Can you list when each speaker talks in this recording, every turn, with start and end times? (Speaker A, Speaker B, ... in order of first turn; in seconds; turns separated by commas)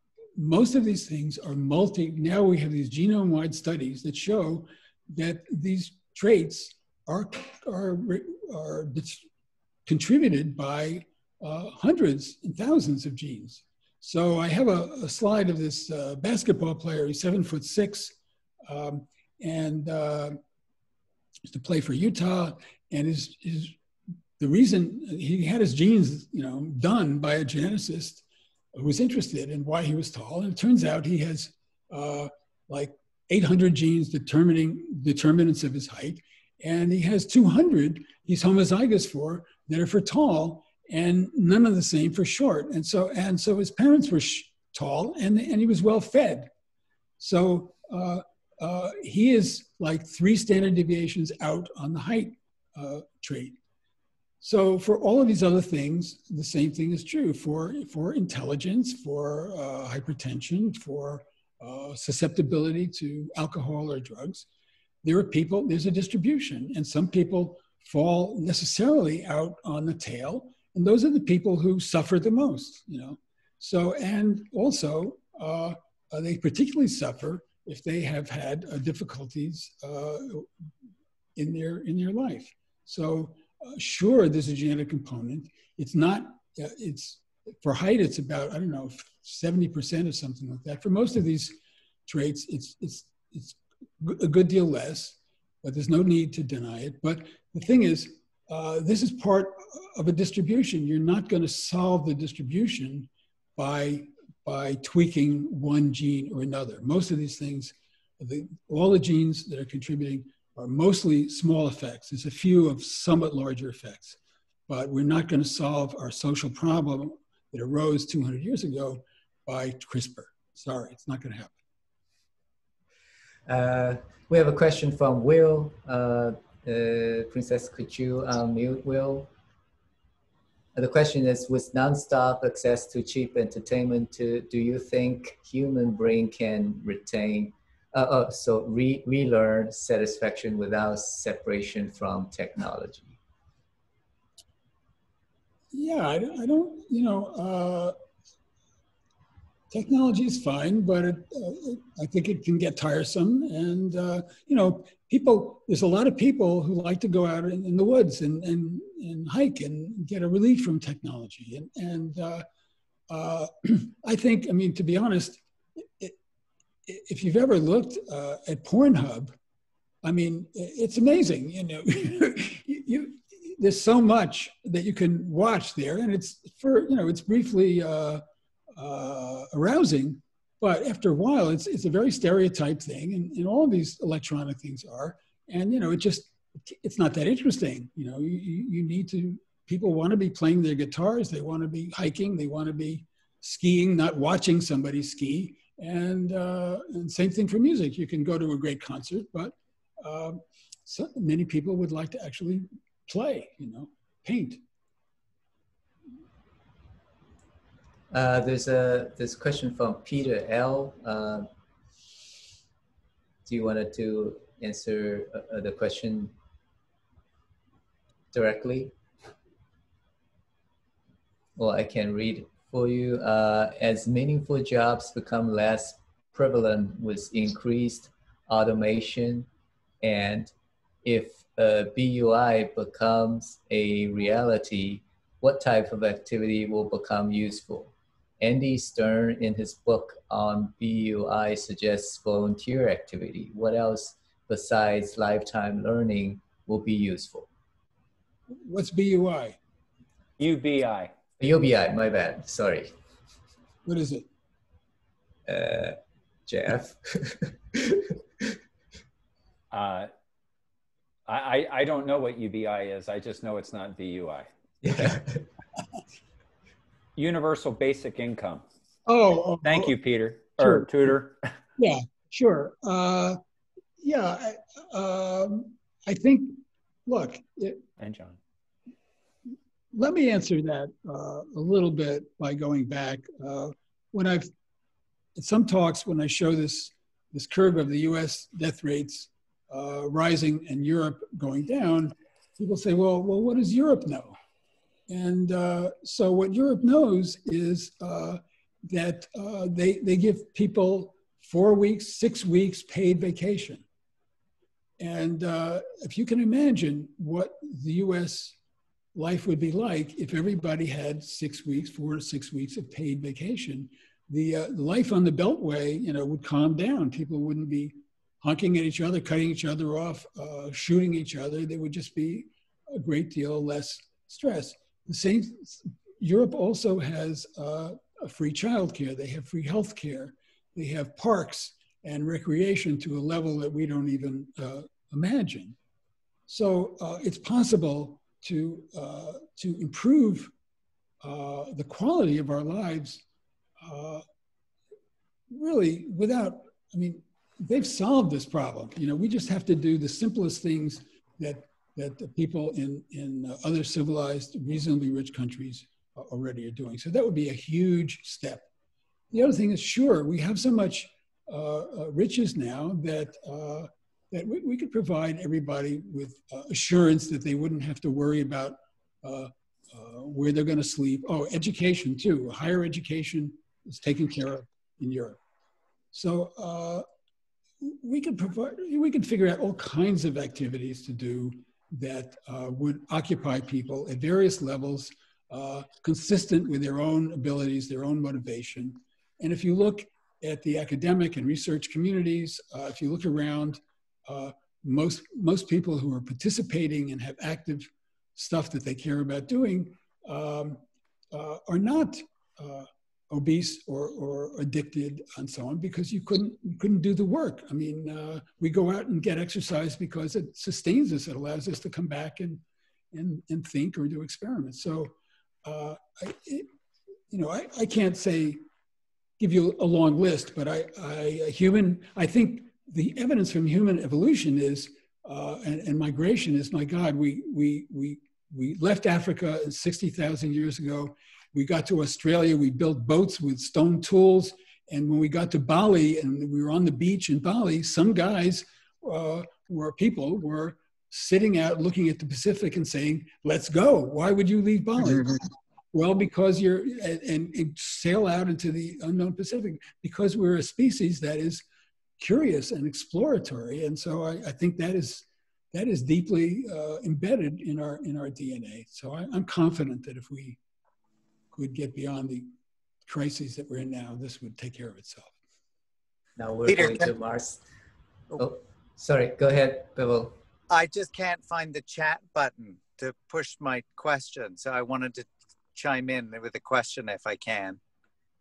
Speaker A: 0.3-9.2, Speaker A: 9.8-20.4, Speaker A: 21.4-23.8, Speaker A: 24.4-46.5, Speaker A: 47.2-53.6, Speaker A: 54.4-64.5, Speaker A: 65.0-80.5, Speaker A: 81.3-91.5, Speaker A: 92.1-121.6, Speaker B: 123.5-129.3, Speaker B: 130.7-143.1, Speaker A: 145.7-147.9, Speaker A: 149.7-162.4, Speaker A: 163.1-166.2, Speaker A: 166.8-169.3, Speaker A: 170.0-178.2, Speaker A: 178.8-204.6, Speaker B: 208.1-211.5, Speaker B: 213.4-216.3, Speaker B: 218.3-218.9, Speaker B: 221.6-229.5, Speaker B: 230.0-230.5, Speaker B: 231.0-247.5, Speaker A: 248.5-249.6, Speaker C: 250.4-251.1, Speaker B: 251.4-252.9, Speaker A: 253.8-254.3, Speaker B: 255.5-258.1, Speaker C: 259.7-260.1, Speaker C: 261.3-264.5, Speaker B: 264.8-265.4, Speaker C: 267.1-268.6, Speaker A: 269.1-269.9, Speaker C: 269.6-271.4, Speaker A: 270.6-270.9, Speaker A: 271.8-273.4, Speaker A: 274.0-277.8, Speaker C: 278.0-278.4, Speaker A: 279.9-284.5, Speaker A: 285.4-294.4, Speaker A: 295.1-303.8, Speaker A: 305.0-308.6, Speaker A: 309.1-335.8, Speaker A: 336.5-340.5, Speaker A: 341.2-343.2, Speaker A: 343.8-344.2, Speaker A: 345.5-358.7, Speaker A: 359.3-375.4, Speaker A: 376.1-377.1, Speaker A: 377.8-415.1, Speaker A: 415.6-416.7, Speaker A: 417.3-418.6, Speaker A: 419.4-445.4, Speaker A: 445.9-451.6, Speaker A: 452.2-460.6, Speaker A: 461.5-462.5, Speaker A: 463.1-465.3, Speaker B: 466.4-467.6, Speaker D: 466.7-467.1, Speaker B: 468.4-470.3, Speaker D: 470.7-477.8